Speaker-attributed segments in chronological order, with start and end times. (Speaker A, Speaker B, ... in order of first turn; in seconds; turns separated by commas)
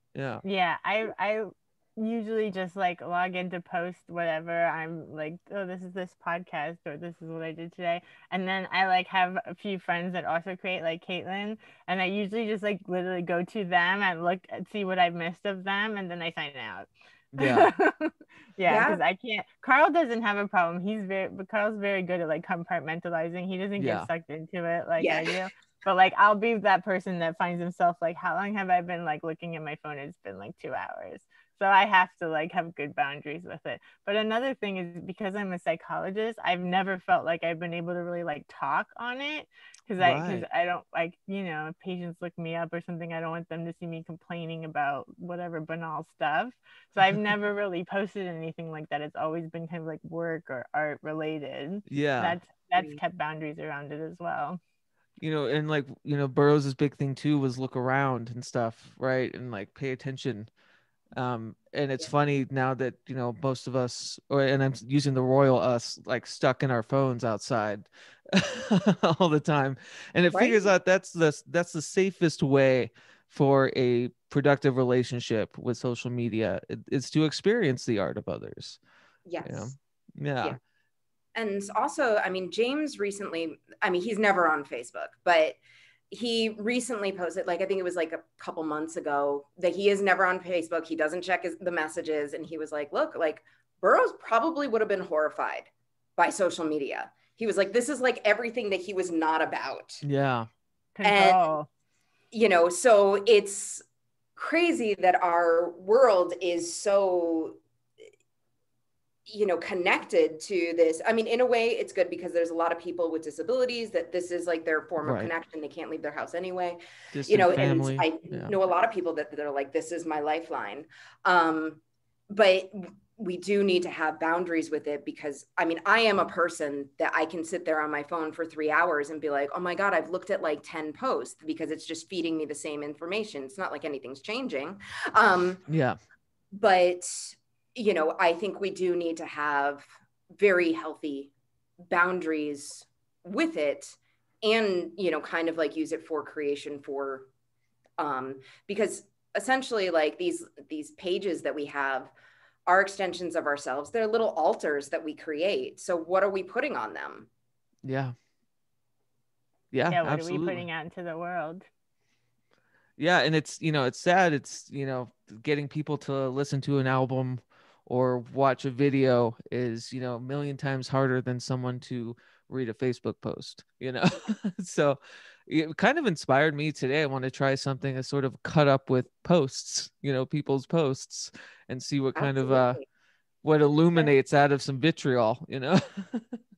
Speaker A: 0.1-0.4, Speaker B: 0.4-16.9, Speaker A: 17.3-17.7, Speaker B: 17.4-54.6, Speaker C: 18.7-19.0, Speaker A: 23.8-24.1, Speaker C: 25.0-25.5, Speaker A: 40.0-40.5, Speaker A: 51.9-52.4, Speaker A: 55.2-60.5, Speaker A: 61.1-78.8, Speaker C: 70.3-70.7, Speaker C: 79.2-79.8, Speaker A: 79.4-80.6, Speaker C: 81.3-85.6, Speaker C: 86.1-100.0, Speaker A: 100.0-100.5, Speaker B: 101.0-101.7, Speaker C: 101.0-101.5, Speaker C: 102.3-103.8, Speaker C: 104.3-107.6, Speaker C: 109.3-135.6, Speaker A: 115.0-115.3, Speaker A: 117.1-118.5, Speaker A: 135.7-136.0, Speaker C: 136.5-141.3, Speaker C: 141.9-147.3, Speaker C: 148.0-152.1, Speaker C: 152.7-157.3, Speaker A: 157.8-158.1, Speaker A: 159.7-160.6, Speaker B: 159.9-161.7, Speaker A: 163.0-182.8, Speaker C: 182.2-182.8, Speaker A: 183.4-186.4